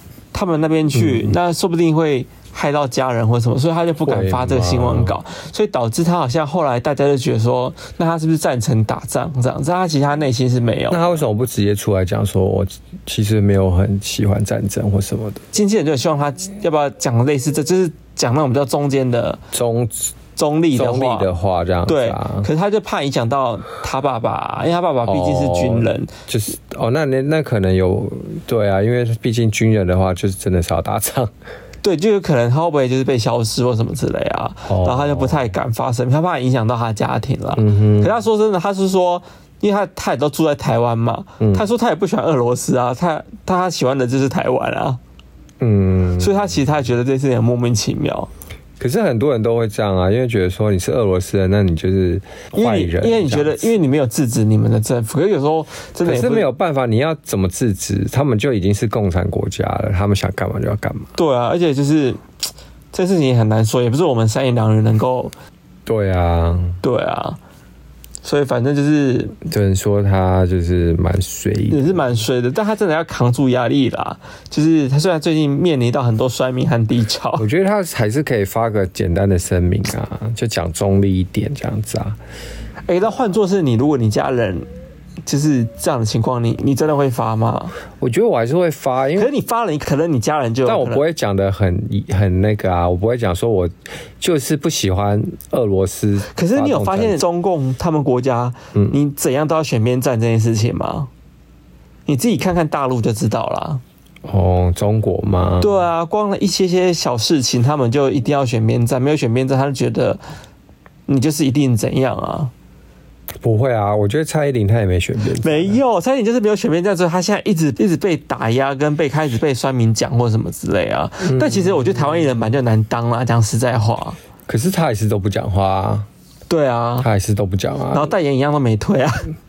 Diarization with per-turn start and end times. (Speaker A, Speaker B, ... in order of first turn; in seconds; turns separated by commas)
Speaker A: 0.3-11.0, Speaker B: 0.9-1.4, Speaker B: 4.1-5.2, Speaker B: 10.9-15.4, Speaker A: 15.5-19.4, Speaker B: 19.5-20.1, Speaker A: 20.4-21.3, Speaker B: 20.7-22.5, Speaker A: 21.9-26.1, Speaker B: 25.1-31.3, Speaker A: 31.8-45.0, Speaker B: 34.7-35.5, Speaker B: 37.6-38.1, Speaker B: 41.4-41.7, Speaker B: 45.6-46.5, Speaker A: 46.2-48.3, Speaker B: 48.8-53.7, Speaker A: 52.5-56.5, Speaker B: 56.0-61.1, Speaker A: 61.2-62.2, Speaker A: 62.9-65.3, Speaker B: 65.9-66.8, Speaker A: 66.8-67.4, Speaker A: 68.2-69.4, Speaker B: 69.5-72.2, Speaker A: 71.7-77.5, Speaker B: 77.4-82.2, Speaker A: 82.9-84.7, Speaker A: 85.3-87.8, Speaker B: 88.0-89.3, Speaker A: 89.2-91.0, Speaker B: 90.7-97.2, Speaker A: 96.3-101.1, Speaker A: 102.1-103.8, Speaker B: 104.2-105.9, Speaker A: 105.6-110.2, Speaker A: 111.1-112.5, Speaker B: 113.4-115.8, Speaker A: 115.4-124.2, Speaker B: 121.2-122.3, Speaker B: 124.5-126.1, Speaker A: 126.5-127.1, Speaker B: 127.0-128.1, Speaker A: 127.9-129.3